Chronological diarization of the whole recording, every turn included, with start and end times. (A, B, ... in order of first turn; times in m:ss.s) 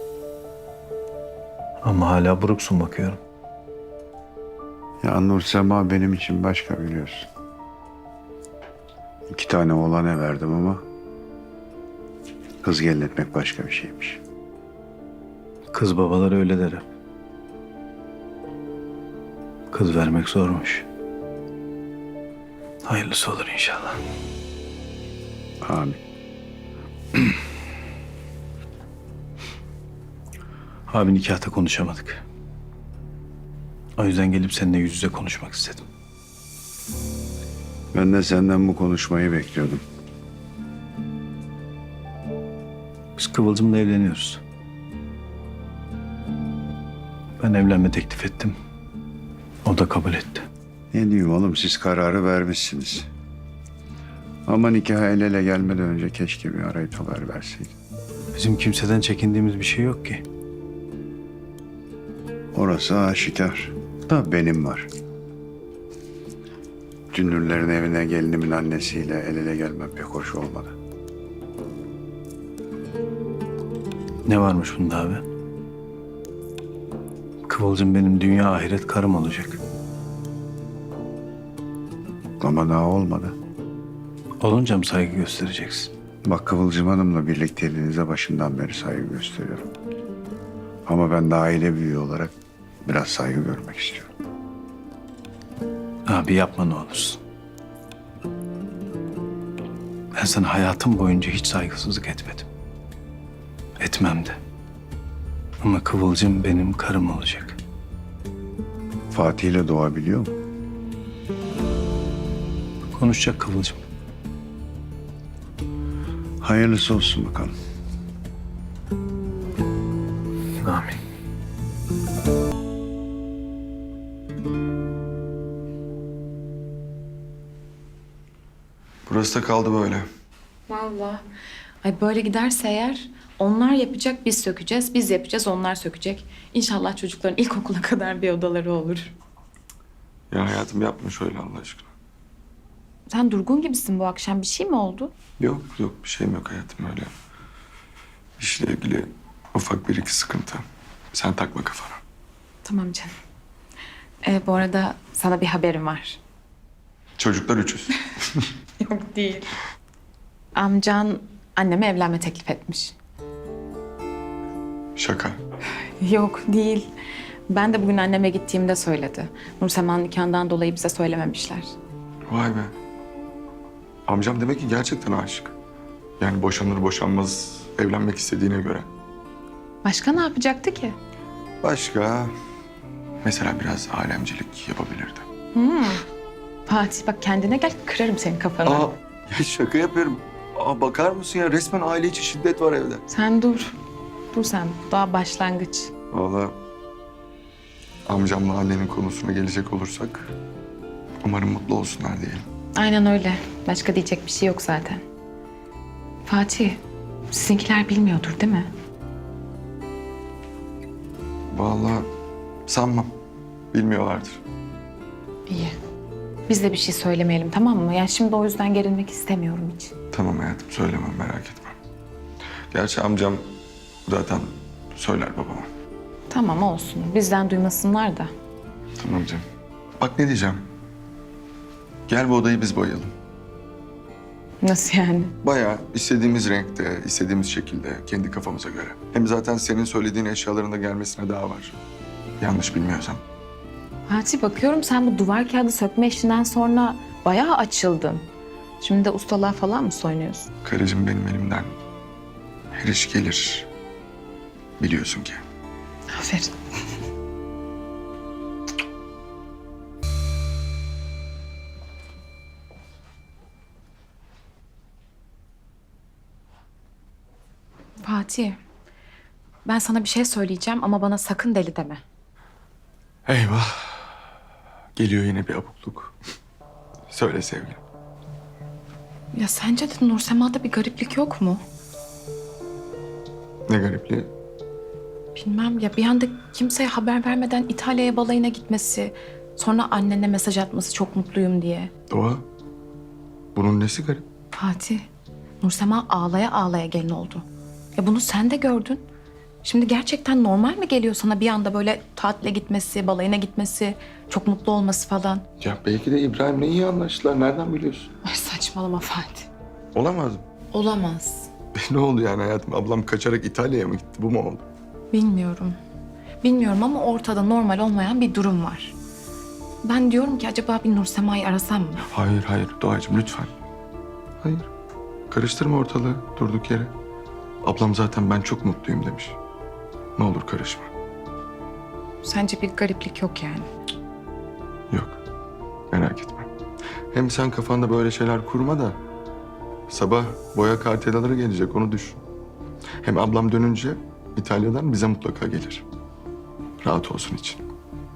0:01.8-0:03.2 A
0:05.0-0:07.3 B
0:09.3-0:10.8 B
0:12.6-0:14.2 B
0:15.7-0:16.8 A
0:19.7-0:20.8 A
0:22.8-0:24.0 A
0:25.6-0:26.0 B
0:30.9-0:32.2 A
0:34.0-0:35.8 A
0:37.9-0:39.8 B
0:43.2-0:44.4 A
0:47.4-0:48.5 A
0:49.6-0:50.5 A
0:50.9-0:53.1 B
0:54.5-0:57.7 B
0:58.3-1:00.2 A
1:02.5-1:04.9 B
1:07.1-1:10.7 B
1:14.2-1:15.2 A
1:17.5-1:19.6 A
1:22.4-1:23.3 B
1:24.4-1:25.9 A
1:26.2-1:29.7 B
1:30.8-1:32.3 B
1:32.8-1:34.1 B
1:36.0-1:37.2 A
1:40.1-1:42.5 A
1:43.8-1:44.4 A
1:45.6-1:47.6 A
1:49.1-1:50.3 B
1:52.9-1:53.8 A
1:56.4-1:57.5 B
2:00.6-2:01.0 A
2:09.1-2:10.0 C
2:10.7-2:11.2 D
2:11.8-2:19.2 D
2:20.3-2:21.9 C
2:23.1-2:25.1 D
2:25.4-2:27.1 C
2:28.4-2:32.0 C
2:32.6-2:33.1 D
2:34.2-2:36.2 D
2:37.2-2:38.5 C
2:38.8-2:39.5 D
2:40.5-2:43.0 D
2:45.0-2:45.4 C
2:46.0-2:46.9 D
2:47.5-2:51.7 D
2:52.3-2:52.7 C
2:54.1-2:55.5 C
2:56.2-2:58.9 C
2:59.8-3:01.0 D
3:01.6-3:02.3 C
3:03.2-3:05.3 C
3:05.5-3:06.0 D
3:06.7-3:08.9 D
3:08.6-3:13.0 C
3:13.1-3:13.8 D
3:14.3-3:15.9 D
3:16.1-3:16.6 C
3:18.1-3:20.3 C
3:21.2-3:22.4 C
3:22.7-3:25.0 D
3:26.2-3:26.8 D
3:27.3-3:28.7 D
3:31.5-3:32.0 C
3:32.7-3:33.1 C
3:33.7-3:34.4 C
3:35.5-3:35.7 D
3:36.5-3:39.9 D
3:40.1-3:41.8 C
3:42.7-3:43.5 C
3:44.0-3:45.7 C
3:46.3-3:48.3 D
3:49.0-3:49.4 C
3:50.0-3:50.6 C
3:52.1-3:53.1 C
3:54.6-3:55.3 D
3:55.4-4:01.8 C
4:02.4-4:03.2 C
4:04.1-4:08.2 D
4:08.8-4:10.5 D
4:10.6-4:11.7 C
4:12.8-4:13.7 C
4:14.8-4:15.4 C
4:16.1-4:16.5 D
4:28.0-4:28.6 D
4:29.6-4:32.0 D
4:33.2-4:34.2 C
4:35.0-4:36.1 C
4:37.1-4:37.8 C
4:39.3-4:41.6 D
4:43.7-4:44.3 C
4:45.4-4:51.9 D
4:52.1-4:52.4 C
4:53.5-4:54.2 C
4:54.5-4:55.0 D
4:55.6-4:59.0 D
4:59.6-5:05.4 D
5:05.6-5:08.1 C
5:08.2-5:09.5 D
5:10.0-5:10.4 C
5:10.7-5:11.5 D
5:11.8-5:14.6 C
5:15.1-5:15.8 D
5:16.4-5:19.0 D
5:19.8-5:22.0 D
5:22.1-5:23.5 C
5:24.4-5:24.7 C
5:25.3-5:26.9 C
5:27.6-5:29.4 C
5:30.2-5:30.9 C
5:32.2-5:33.7 D
5:34.9-5:35.2 C
5:35.9-5:36.5 C
5:37.1-5:39.0 C
5:39.9-5:42.2 C
5:43.0-5:45.8 C
5:46.8-5:47.6 C